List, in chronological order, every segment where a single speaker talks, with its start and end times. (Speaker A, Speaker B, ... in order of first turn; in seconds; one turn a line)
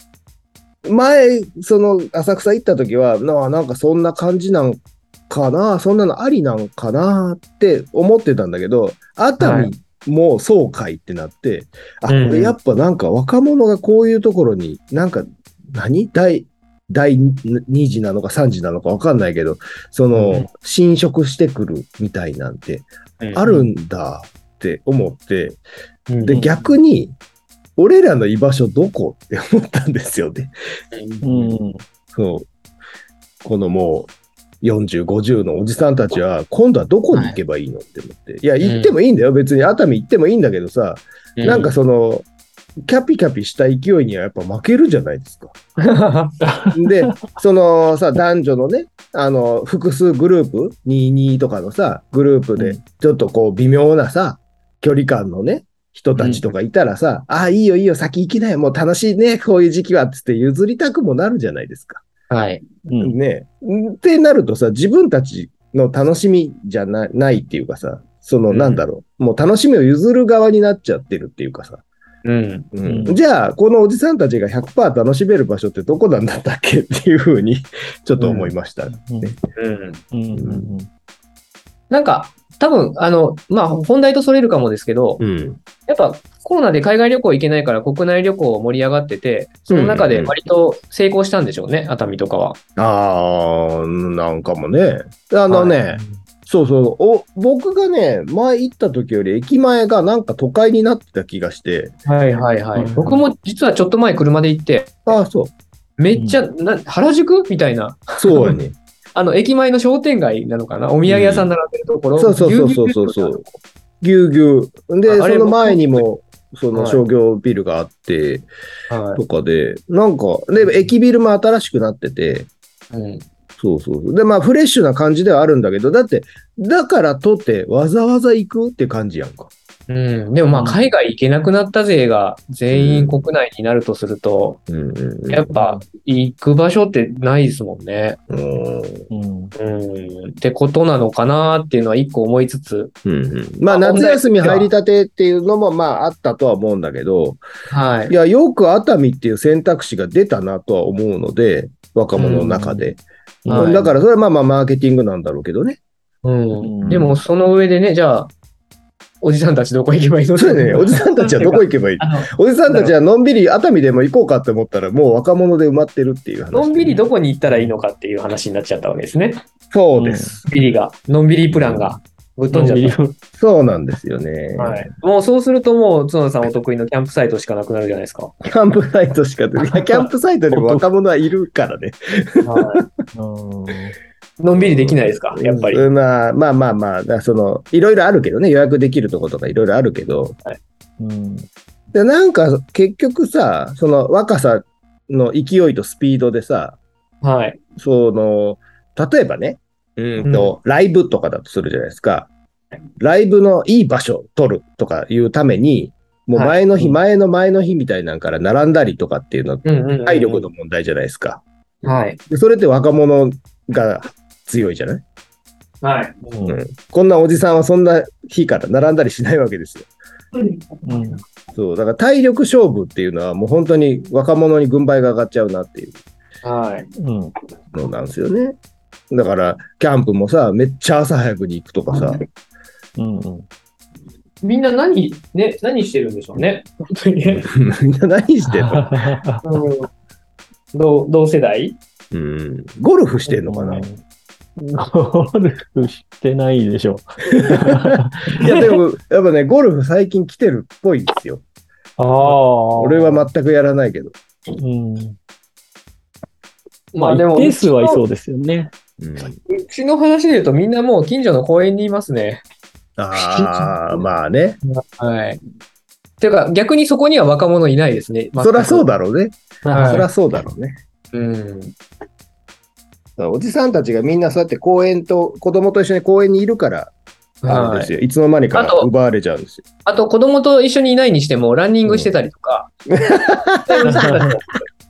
Speaker A: 0.8-25.6
Speaker B: 9.4-9.7
Speaker B: 12.1-12.6
Speaker B: 20.1-20.5
Speaker B: 23.2-23.7
Speaker B: 26.1-26.4
Speaker A: 26.2-27.1
Speaker C: 26.3-26.7
Speaker A: 27.8-30.5
Speaker B: 30.9-31.2
Speaker A: 31.2-31.5
Speaker C: 31.2-31.8
Speaker A: 32.1-32.5
Speaker A: 33.4-34.1
Speaker A: 34.6-42.3
Speaker B: 38.6-39.0
Speaker B: 41.4-41.7
Speaker A: 42.9-45.5
Speaker B: 45.8-46.4
Speaker C: 46.4-47.2
Speaker A: 46.7-62.0
Speaker C: 56.1-56.4
Speaker B: 62.3-62.6
Speaker C: 62.9-63.2
Speaker A: 63.0-71.8
Speaker B: 68.5-68.8
Speaker B: 72.2-72.7
Speaker A: 72.7-79.4
Speaker C: 72.8-73.2
Speaker B: 78.2-78.5
Speaker C: 78.9-79.3
Speaker B: 79.5-80.0
Speaker C: 80.1-80.9
Speaker A: 80.3-80.7
Speaker B: 81.9-85.2
Speaker A: 85.2-85.6
Speaker B: 85.8-92.6
Speaker A: 89.7-90.3
Speaker A: 92.8-101.9
Speaker B: 95.5-95.8
Speaker C: 95.9-96.2
Speaker B: 102.0-105.2
Speaker C: 102.8-103.2
Speaker A: 105.1-105.5
Speaker B: 106.0-108.5
Speaker C: 106.1-106.4
Speaker A: 108.2-108.8
Speaker B: 109.1-113.4
Speaker A: 111.0-111.5
Speaker A: 112.2-113.4
Speaker A: 114.0-118.5
Speaker B: 115.1-116.0
Speaker B: 116.7-117.0
Speaker B: 118.9-119.2
Speaker A: 119.2-122.5
Speaker B: 120.6-120.9
Speaker B: 122.9-123.2
Speaker A: 123.6-129.5
Speaker B: 129.9-134.6
Speaker C: 130.5-130.9
Speaker A: 132.7-133.3
Speaker A: 134.7-135.5
Speaker B: 135.3-138.2
Speaker C: 135.5-135.8
Speaker A: 138.3-139.1
Speaker C: 139.1-139.5
Speaker B: 139.5-142.9
Speaker A: 143.0-147.4
Speaker B: 143.7-144.7
Speaker B: 147.7-148.1
Speaker A: 148.1-155.8
Speaker B: 152.2-152.8
Speaker C: 153.4-153.8
Speaker B: 153.5-153.9
Speaker B: 156.2-158.3
Speaker C: 156.6-157.2
Speaker A: 156.8-157.1
Speaker B: 159.2-162.9
Speaker A: 160.4-167.0
Speaker B: 166.5-169.4
Speaker C: 167.5-167.8
Speaker A: 169.7-170.5
Speaker C: 169.9-170.3
Speaker B: 170.4-173.0
Speaker C: 172.5-173.1
Speaker A: 173.3-174.9
Speaker B: 174.6-178.3
Speaker A: 178.4-182.8
Speaker B: 179.7-180.0
Speaker C: 180.5-180.9
Speaker B: 182.4-182.8
Speaker C: 183.1-183.9
Speaker B: 184.4-185.9
Speaker A: 184.5-190.4
Speaker C: 191.0-191.5
Speaker A: 191.9-196.8
Speaker B: 197.2-197.6
Speaker A: 197.8-202.3
Speaker B: 200.2-200.5
Speaker A: 203.0-211.4
Speaker B: 206.3-206.9
Speaker B: 209.6-210.5
Speaker B: 211.8-212.2
Speaker A: 212.3-215.0
Speaker B: 215.8-216.4
Speaker A: 216.4-219.9
Speaker B: 220.3-220.6
Speaker C: 220.8-221.2
Speaker A: 221.5-225.9
Speaker B: 226.4-226.9
Speaker C: 227.0-227.3
Speaker A: 227.7-228.6
Speaker A: 229.1-232.2
Speaker C: 233.0-233.5
Speaker B: 234.4-237.5
Speaker A: 237.3-238.9
Speaker C: 238.5-239.4
Speaker B: 239.4-239.9
Speaker B: 240.7-241.8
Speaker A: 242.1-243.9
Speaker C: 243.5-244.0
Speaker C: 244.6-248.7
Speaker A: 247.3-251.4
Speaker B: 252.0-253.0
Speaker A: 252.2-254.1
Speaker C: 252.3-253.1
Speaker C: 254.6-255.2
Speaker B: 256.9-258.0
Speaker C: 256.9-258.7
Speaker A: 259.0-259.4
Speaker B: 259.5-262.4
Speaker A: 263.0-264.6
Speaker B: 263.1-264.0
Speaker B: 264.6-265.4
Speaker B: 266.2-268.9
Speaker A: 268.4-270.8
Speaker C: 269.6-270.1
Speaker B: 269.7-270.1
Speaker B: 271.1-271.7
Speaker A: 273.2-276.9
Speaker B: 277.4-277.9
Speaker A: 277.4-279.6
Speaker B: 278.5-278.9
Speaker B: 279.8-282.7
Speaker A: 282.9-284.2
Speaker B: 283.7-284.6
Speaker C: 283.9-284.2